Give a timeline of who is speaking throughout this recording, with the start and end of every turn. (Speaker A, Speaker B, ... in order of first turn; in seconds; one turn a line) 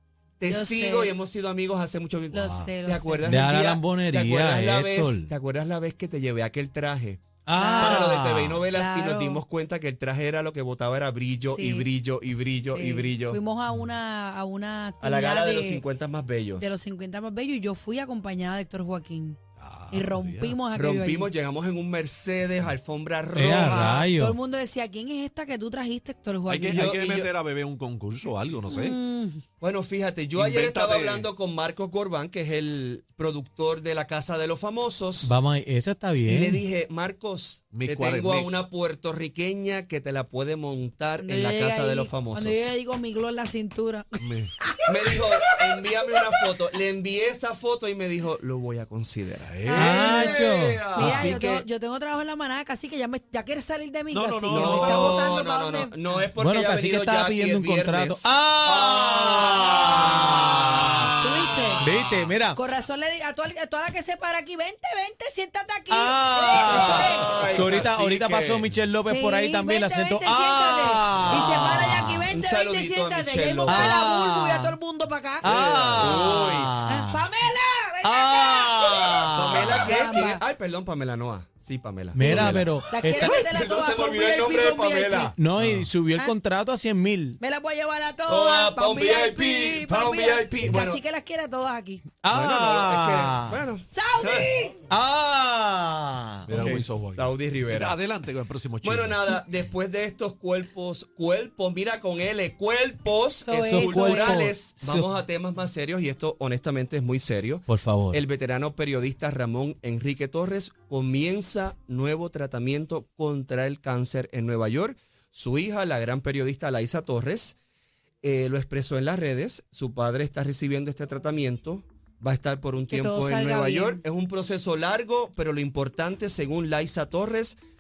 Speaker A: 0.4-7.2
Speaker B: 0.5-1.1
Speaker B: 2.3-3.3
Speaker C: 3.2-5.3
Speaker C: 7.4-8.6
Speaker B: 7.5-8.2
Speaker A: 7.8-13.4
Speaker B: 8.7-9.4
Speaker B: 11.5-11.9
Speaker B: 12.6-15.8
Speaker A: 15.0-16.8
Speaker B: 16.6-19.4
Speaker D: 19.6-20.6
Speaker B: 19.9-21.3
Speaker A: 20.7-24.1
Speaker C: 23.3-24.4
Speaker B: 24.1-26.9
Speaker D: 26.5-28.9
Speaker A: 26.7-27.3
Speaker B: 28.7-29.4
Speaker A: 29.6-35.3
Speaker D: 30.3-31.3
Speaker C: 35.2-36.6
Speaker A: 36.2-42.7
Speaker D: 37.7-38.5
Speaker B: 41.2-45.2
Speaker D: 44.2-44.5
Speaker A: 44.9-49.9
Speaker D: 49.5-51.3
Speaker B: 49.6-50.4
Speaker C: 49.7-50.9
Speaker B: 50.9-55.9
Speaker A: 51.0-51.6
Speaker D: 54.1-55.2
Speaker A: 54.5-60.0
Speaker C: 56.4-61.1
Speaker B: 61.2-61.8
Speaker C: 61.8-62.6
Speaker B: 62.5-67.3
Speaker C: 65.9-72.3
Speaker A: 66.5-68.6
Speaker B: 69.1-75.5
Speaker A: 71.3-74.0
Speaker C: 73.7-74.7
Speaker C: 75.4-77.3
Speaker A: 75.4-76.8
Speaker B: 76.8-79.3
Speaker C: 78.0-79.9
Speaker A: 79.3-85.4
Speaker B: 79.8-80.4
Speaker C: 82.1-83.3
Speaker B: 82.2-85.3
Speaker C: 85.3-87.4
Speaker D: 85.6-85.9
Speaker B: 87.4-92.0
Speaker A: 88.3-91.0
Speaker C: 92.2-93.6
Speaker A: 92.3-94.5
Speaker B: 93.9-94.8
Speaker C: 94.9-96.5
Speaker D: 96.5-99.2
Speaker A: 96.5-98.0
Speaker A: 98.8-117.5
Speaker B: 103.4-104.5
Speaker C: 103.6-105.1
Speaker C: 107.7-108.2
Speaker A: 118.2-127.6
Speaker B: 122.9-124.0